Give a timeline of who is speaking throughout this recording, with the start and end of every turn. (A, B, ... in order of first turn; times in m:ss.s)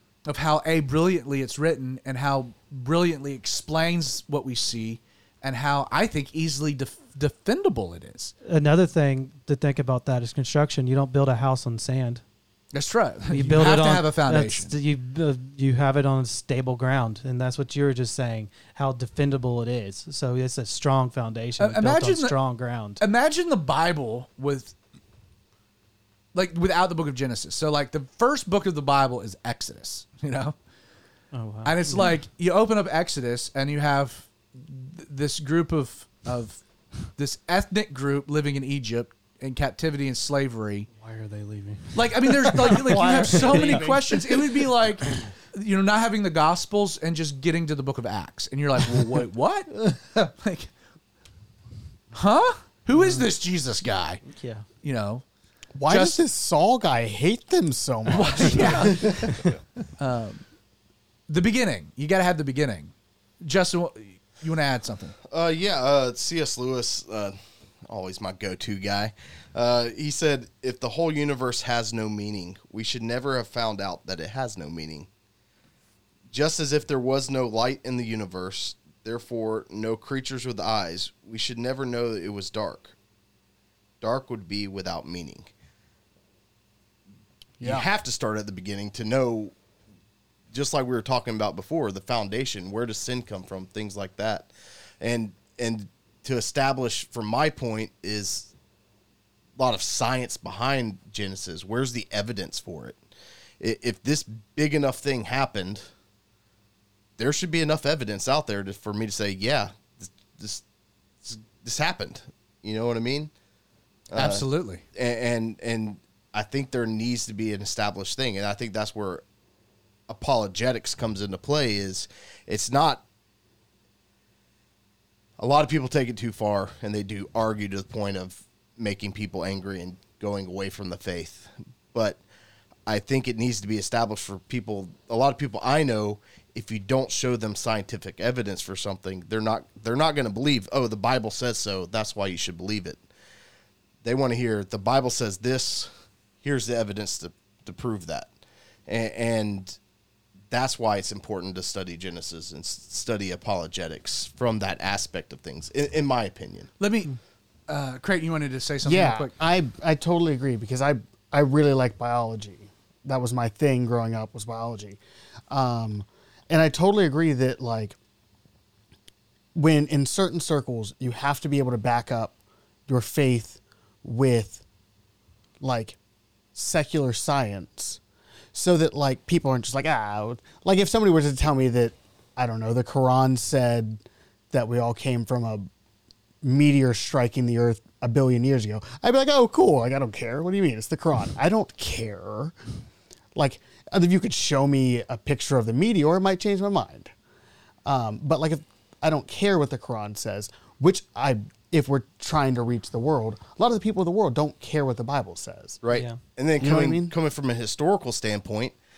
0:00.3-0:08.3 A
0:08.4-0:12.2 B
0:12.7-0:14.7 A
0:13.3-0:23.0 B
0:21.6-0:22.4 A
0:23.0-0:24.8 A
0:26.3-0:30.5 A
0:31.3-0:32.2 B
0:31.6-0:40.9 A
0:41.0-0:44.5 C
0:41.9-0:50.7 A
0:42.9-0:43.9 B
0:52.1-0:54.2 A
0:52.9-0:53.3 B
0:54.2-0:54.6 B
0:54.8-0:55.2 A
0:55.7-0:59.4 D
0:55.9-0:56.2 A
0:58.1-0:59.4 A
1:00.0-1:00.4 A
1:01.3-1:05.1 A
1:05.3-1:15.1 E
1:16.3-1:22.9 E
1:24.0-1:25.5 E
1:27.6-1:29.5 E
1:27.6-1:27.9 D
1:30.5-1:34.5 E
1:35.0-1:38.5 E
1:39.6-1:43.0 E
1:43.6-1:45.8 E
1:47.2-1:50.6 E
1:51.2-1:53.3 E
1:54.1-1:59.2 E
1:54.1-1:54.8 A
2:00.1-2:03.0 E
2:05.4-2:12.2 E
2:12.9-2:23.0 E
2:24.0-2:25.9 E
2:26.4-2:28.3 E
2:28.9-2:29.8 E
2:30.5-2:36.7 E
2:36.8-2:37.2 A
2:37.7-2:39.3 A
2:38.8-2:48.0 D
2:49.6-2:52.3 D
2:52.9-2:54.6 D
2:55.6-2:56.0 D
2:56.5-2:58.0 D
2:58.5-3:05.7 D
3:06.4-3:12.6 D
3:13.3-3:17.1 D
3:17.8-3:25.8 D
3:25.8-3:28.7 E
3:25.9-3:26.2 B
3:26.6-3:27.1 D